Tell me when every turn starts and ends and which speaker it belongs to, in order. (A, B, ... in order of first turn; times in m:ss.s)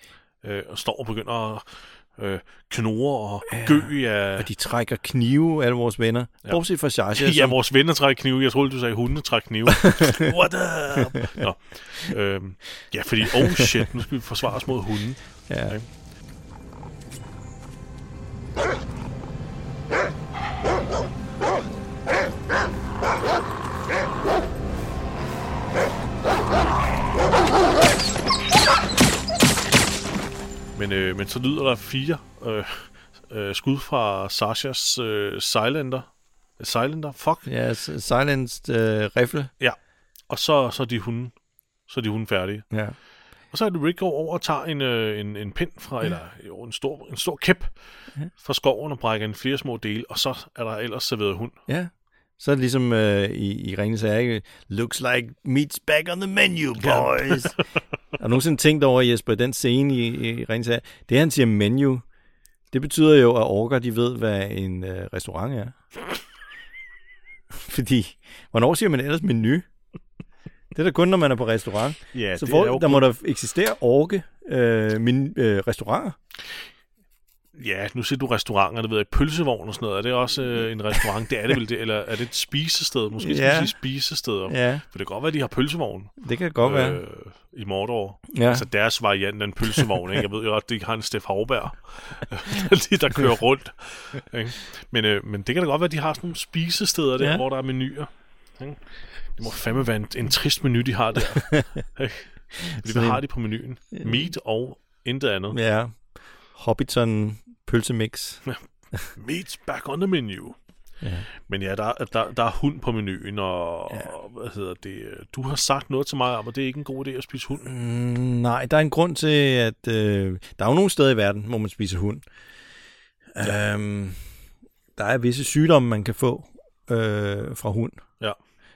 0:00.4-0:04.5 A
0:03.5-0:07.6 B
0:07.2-0:15.9 A
0:09.8-0:10.3 B
0:15.5-0:15.8 B
0:30.8-0:37.5 A
0:37.5-0:39.5 B
0:39.6-0:42.8 A
0:42.7-0:43.0 B
0:43.5-0:51.6 A
0:51.7-0:57.6 B
0:56.8-0:57.6 A
0:58.1-1:02.0 B
1:02.7-1:05.8 B
1:07.5-1:09.7 B
1:10.7-1:16.2 B
1:12.1-1:13.1 A
1:17.6-1:45.6 A
1:23.2-1:23.8 B
1:24.5-1:24.8 B
1:26.2-1:27.0 B
1:28.3-1:28.7 B
1:42.8-1:43.2 B
1:43.8-1:44.3 B
1:45.5-1:49.0 B
1:49.1-1:50.6 A
1:51.0-1:51.3 B
1:51.4-1:57.7 A
1:57.6-2:02.3 B
2:03.3-2:04.4 B
2:05.0-2:08.1 B